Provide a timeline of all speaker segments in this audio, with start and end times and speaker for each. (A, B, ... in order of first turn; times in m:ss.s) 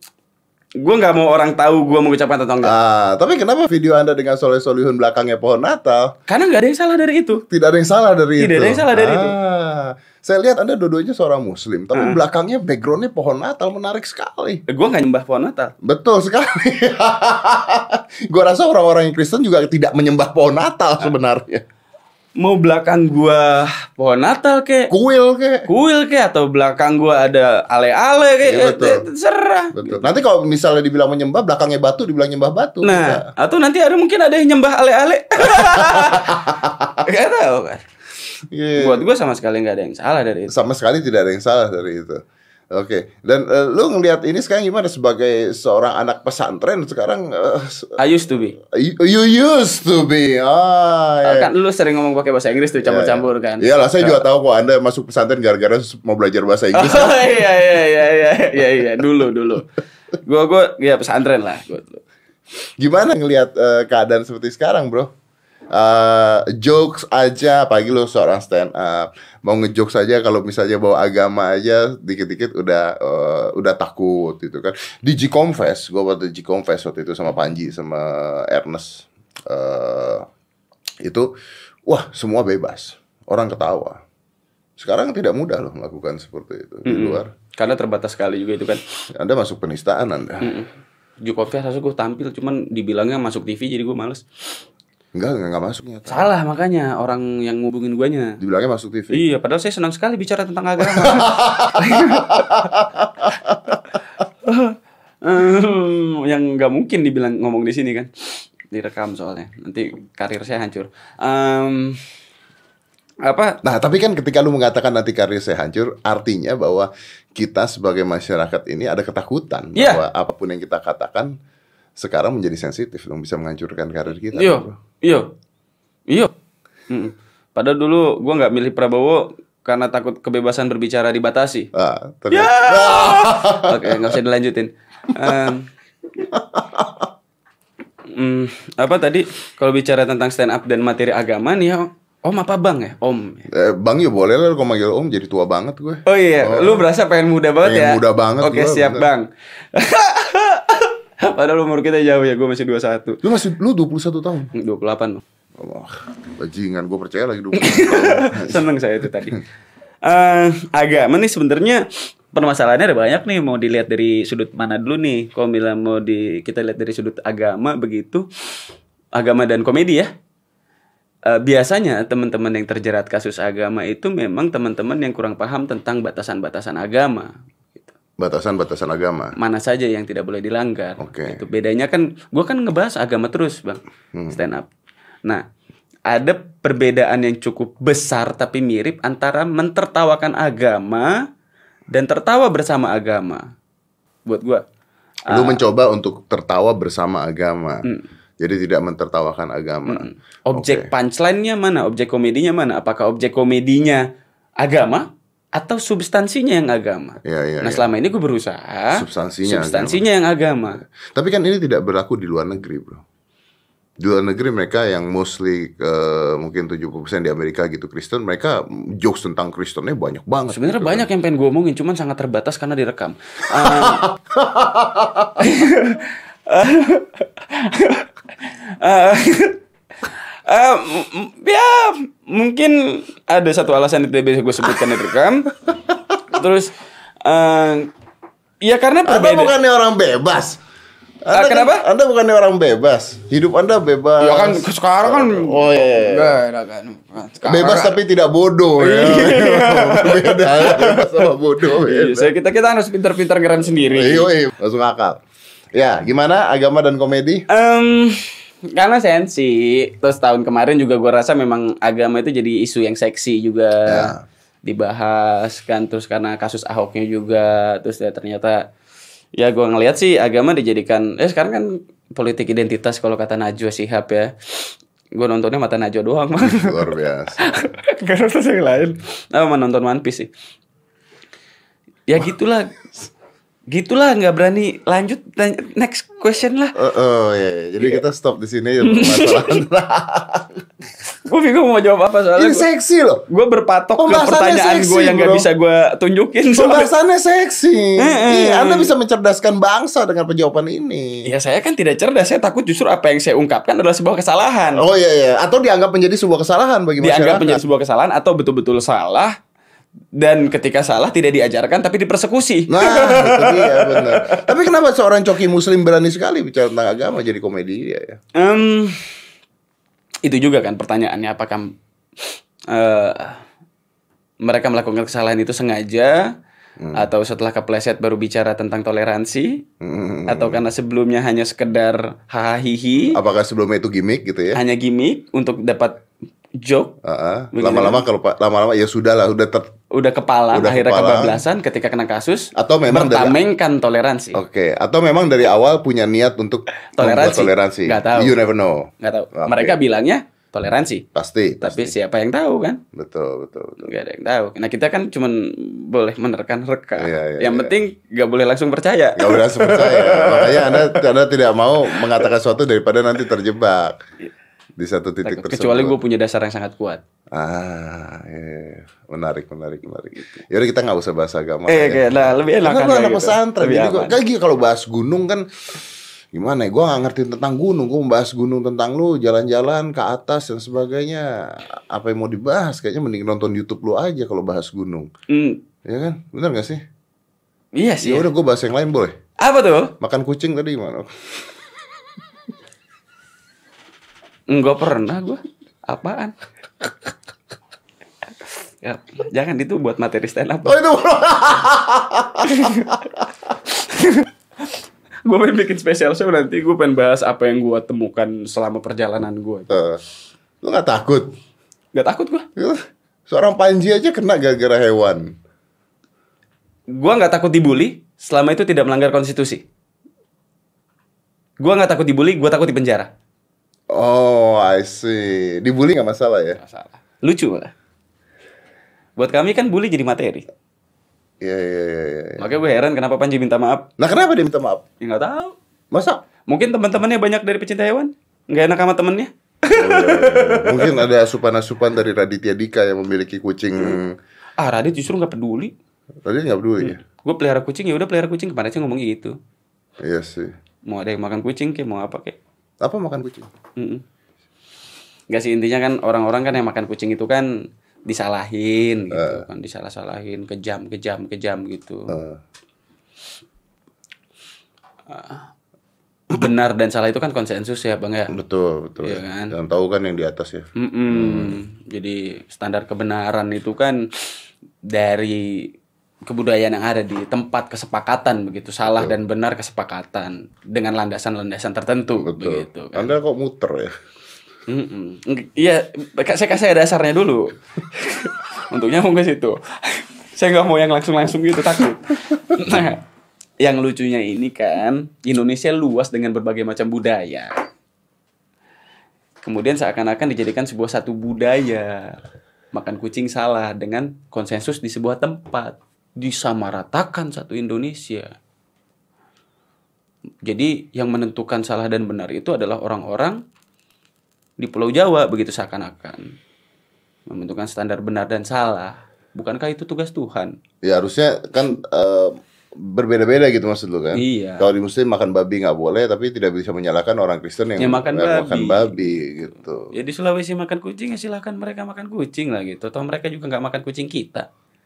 0:00.8-0:02.7 A
0:02.6-0:06.1 B
0:06.3-0:07.4 A
0:07.5-0:14.6 B
0:08.4-0:09.4 A
0:11.9-0:12.2 A
0:14.7-0:15.7 A
0:15.8-0:21.6 B
0:22.4-0:24.9 A
0:24.9-0:25.7 B
0:25.7-0:30.0 A
0:28.4-0:29.0 B
0:29.7-0:33.3 B
0:32.8-0:37.8 A
0:35.5-0:37.0 B
0:38.5-0:39.0 B
0:38.8-0:40.5 A
0:40.5-0:42.2 B
0:42.7-0:48.0 B
0:48.0-0:48.6 A
0:48.7-0:51.5 B
0:51.2-0:54.2 A
0:52.8-0:57.3 B
0:56.7-0:59.7 A
1:00.2-1:02.0 A
1:02.8-1:05.1 B
1:05.7-1:20.2 B
1:21.9-1:24.0 B
1:24.8-1:27.3 B
1:26.8-1:28.8 A
1:29.2-1:30.5 B
1:30.4-1:30.7 A
1:31.2-1:34.2 A
1:35.1-1:36.3 B
1:36.1-1:38.4 A
1:38.4-1:39.2 B
1:39.1-1:42.7 A
1:41.0-1:43.7 B
1:44.4-1:52.0 A
1:53.2-1:53.6 A
1:53.6-2:01.3 B
1:59.7-2:00.0 A
2:02.0-2:04.8 B
2:04.3-2:05.3 A
2:06.9-2:11.7 A
2:11.7-2:14.2 B
2:12.3-2:15.7 A
2:15.2-2:15.5 B
2:16.2-2:17.1 B
2:18.1-2:23.4 A
2:23.5-2:26.9 B
2:26.0-2:33.2 A
2:27.6-2:29.0 B
2:33.2-2:34.5 B
2:34.5-2:35.2 A
2:35.6-2:38.6 B
2:37.5-2:39.4 A
2:40.0-2:48.2 A
2:49.2-2:50.1 A
2:51.3-2:57.3 A
2:58.2-2:59.3 B
2:59.4-3:04.7 A
3:01.0-3:01.4 B
3:06.1-3:11.2 A
3:11.9-3:13.4 A
3:14.2-3:14.6 A
3:15.3-3:15.6 A
3:15.3-3:17.8 B
3:18.4-3:20.9 B
3:19.9-3:24.0 A
3:24.6-3:30.8 A
3:27.2-3:27.8 B
3:28.9-3:30.0 B
3:31.1-3:33.0 B
3:34.0-3:41.0 B
3:40.5-3:44.0 A
3:43.6-3:45.4 B
3:45.4-3:49.6 A
3:50.5-3:55.5 A
3:55.9-3:56.2 B
3:56.3-3:56.7 A
3:57.2-3:57.9 A
3:58.6-3:59.5 A
3:59.0-4:00.6 B
4:01.2-4:06.4 B
4:01.3-4:01.8 A
4:04.2-4:08.0 A
4:07.4-4:12.3 B
4:08.8-4:14.3 A
4:13.9-4:15.2 B
4:15.7-4:17.4 B
4:17.5-4:24.1 A
4:23.9-4:24.2 B
4:24.6-4:28.6 A
4:29.4-4:40.3 A
4:36.4-4:37.4 B
4:42.1-4:42.8 A
4:43.7-4:46.7 A
4:46.8-4:50.6 B
4:48.8-4:49.6 A
4:51.1-4:52.6 A
4:52.4-4:53.2 B
4:53.3-4:56.9 A
4:54.0-4:55.4 B
4:56.5-5:01.3 B
4:58.0-4:58.9 A
5:01.2-5:04.8 A
5:04.7-5:07.6 B
5:07.0-5:09.3 A
5:10.2-5:14.4 A
5:12.7-5:18.2 B
5:18.4-5:19.0 A
5:20.2-5:21.7 A
5:22.7-5:23.4 A
5:24.4-5:26.3 A
5:26.8-5:27.0 B
5:26.9-5:29.6 A
5:29.8-5:30.6 B
5:30.3-5:33.2 A
5:33.1-5:34.6 B
5:34.5-5:36.0 A
5:36.6-5:36.9 A
5:37.0-5:39.6 B
5:37.5-5:38.0 A
5:39.9-5:44.4 A
5:40.5-5:41.4 B
5:42.6-5:43.4 B
5:44.3-5:49.7 B
5:46.9-5:48.4 A
5:49.0-5:51.0 A
5:51.1-5:51.9 B
5:51.6-5:52.8 A
5:52.9-5:53.9 B
5:53.8-6:01.0 A
5:57.0-5:57.8 B
5:59.2-6:04.0 B
6:04.8-6:06.0 B
6:05.2-6:07.0 A
6:07.3-6:15.4 B
6:11.7-6:14.2 A
6:16.3-6:25.1 B
6:25.3-6:25.6 A
6:25.8-6:26.8 B
6:27.8-6:28.3 A
6:28.0-6:29.1 B
6:29.4-6:29.9 A
6:30.0-6:31.1 B
6:34.5-6:36.3 A
6:38.8-6:40.8 A
6:40.6-6:43.1 B
6:42.4-6:43.0 A
6:43.7-6:44.3 A
6:45.2-6:49.7 A
6:49.7-6:50.0 B
6:50.6-6:51.3 B
6:51.9-6:52.4 A
6:52.6-6:55.2 B
6:56.9-6:59.6 A
7:01.6-7:03.1 A
7:03.9-7:06.6 B
7:06.6-7:07.7 A
7:09.2-7:10.4 A
7:11.4-7:12.4 B
7:12.4-7:13.9 A
7:14.0-7:14.8 B
7:15.0-7:15.5 A
7:15.9-7:16.2 B
7:16.5-7:21.0 A
7:19.7-7:24.2 B
7:24.6-7:25.7 A
7:26.2-7:27.0 B
7:26.8-7:29.4 A
7:30.0-7:30.5 B
7:30.9-7:32.4 A
7:32.8-7:33.5 B
7:33.8-7:34.0 A
7:35.3-7:37.5 A
7:38.0-7:42.2 A
7:39.1-7:39.4 B
7:42.1-7:42.4 B
7:45.1-7:45.4 A
7:46.3-7:48.3 A
7:48.3-7:51.6 B
7:49.0-7:49.5 A
7:50.8-7:54.0 A
7:54.9-7:55.7 A
7:56.2-8:03.1 A
7:58.8-7:59.1 B
8:02.2-8:03.9 B
8:04.7-8:13.0 A
8:13.6-8:17.5 A
8:19.4-8:22.2 A
8:22.7-8:28.3 A
8:30.4-8:33.4 A
8:34.6-8:36.3 A
8:37.3-8:40.6 A
8:40.8-8:49.9 B
8:44.1-8:44.7 A
8:47.8-8:54.5 A